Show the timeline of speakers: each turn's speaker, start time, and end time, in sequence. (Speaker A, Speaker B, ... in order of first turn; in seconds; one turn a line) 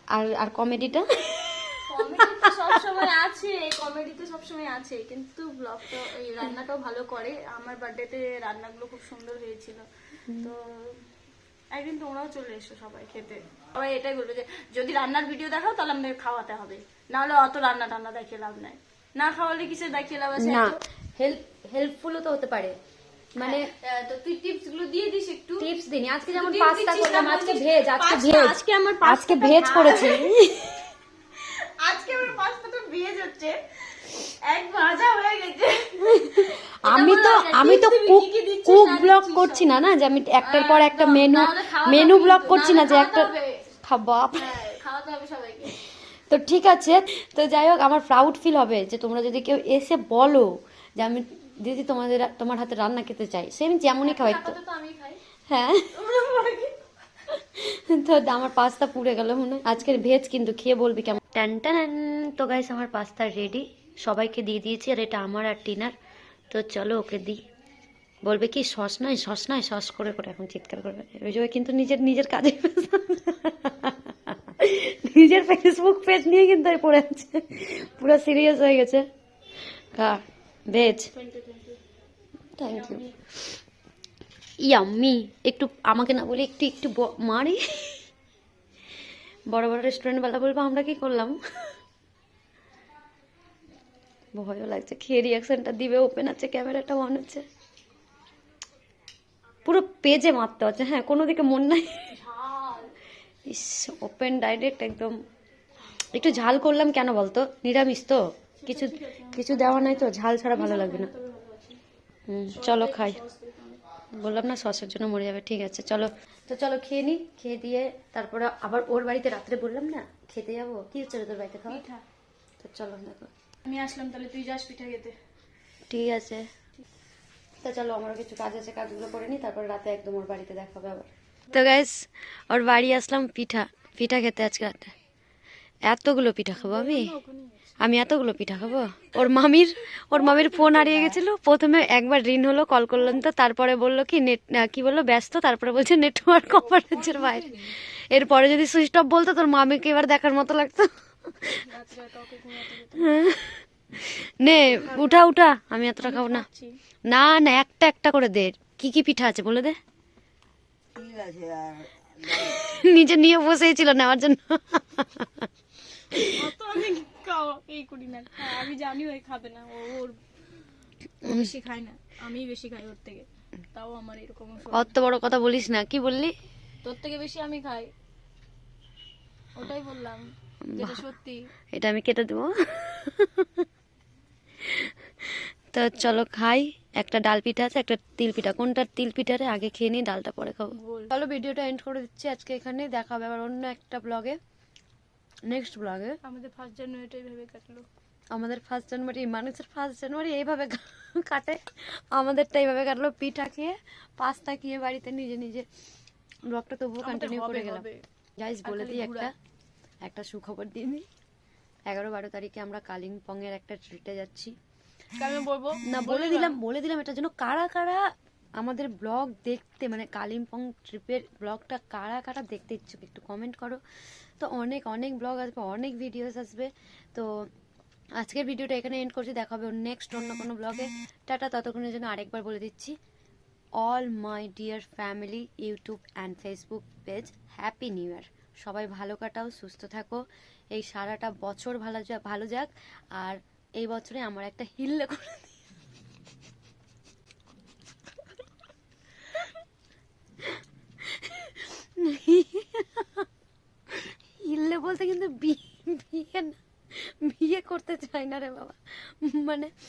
Speaker A: 0.1-2.5
Speaker B: 1.9-9.9
Speaker B: 10.4-11.0
Speaker B: 11.7-20.8
Speaker A: 20.4-22.8
Speaker A: 23.4-23.7
Speaker B: 23.4-25.7
Speaker A: 25.6-30.9
Speaker B: 26.3-30.4
Speaker B: 31.5-39.7
Speaker A: 36.0-43.3
Speaker B: 40.4-43.7
Speaker A: 43.8-44.5
Speaker B: 44.4-45.7
Speaker A: 46.3-54.5
Speaker B: 54.0-55.2
Speaker A: 55.5-55.9
Speaker B: 55.9-56.8
Speaker A: 57.3-65.9
Speaker A: 66.5-67.4
Speaker A: 68.2-79.0
Speaker A: 80.0-81.1
Speaker B: 81.1-81.8
Speaker A: 82.6-83.1
Speaker B: 82.7-83.2
Speaker A: 84.6-88.0
Speaker A: 89.5-91.4
Speaker A: 94.3-97.4
Speaker A: 99.7-102.1
Speaker B: 102.1-102.9
Speaker A: 103.5-105.1
Speaker A: 106.1-111.1
Speaker B: 108.6-111.8
Speaker A: 112.3-113.2
Speaker B: 112.5-113.8
Speaker A: 114.2-121.8
Speaker B: 121.7-122.0
Speaker A: 122.6-123.3
Speaker B: 123.7-125.2
Speaker A: 125.9-126.5
Speaker A: 127.6-134.9
Speaker A: 135.9-137.1
Speaker B: 136.6-137.7
Speaker A: 137.8-151.6
Speaker B: 140.1-141.2
Speaker B: 146.7-147.7
Speaker B: 151.6-153.2
Speaker A: 153.0-156.4
Speaker B: 154.7-155.2
Speaker B: 156.0-156.8
Speaker A: 157.1-159.8
Speaker A: 162.3-165.5
Speaker B: 166.4-170.2
Speaker B: 171.2-174.9
Speaker A: 174.7-176.3
Speaker B: 176.8-177.9
Speaker B: 179.6-181.4
Speaker A: 180.7-181.0
Speaker A: 181.7-183.7
Speaker A: 184.7-184.9
Speaker A: 185.7-194.4
Speaker B: 190.7-191.1
Speaker A: 195.4-196.2
Speaker B: 196.2-197.8
Speaker A: 198.3-205.7
Speaker A: 206.5-207.8
Speaker B: 207.0-208.1
Speaker A: 208.4-209.3
Speaker B: 208.6-209.3
Speaker A: 210.0-211.1
Speaker A: 211.9-214.5
Speaker B: 215.2-216.6
Speaker A: 215.8-218.0
Speaker A: 218.6-223.8
Speaker A: 224.4-227.3
Speaker A: 228.2-232.9
Speaker A: 233.8-245.6
Speaker A: 250.6-253.3
Speaker A: 253.9-259.7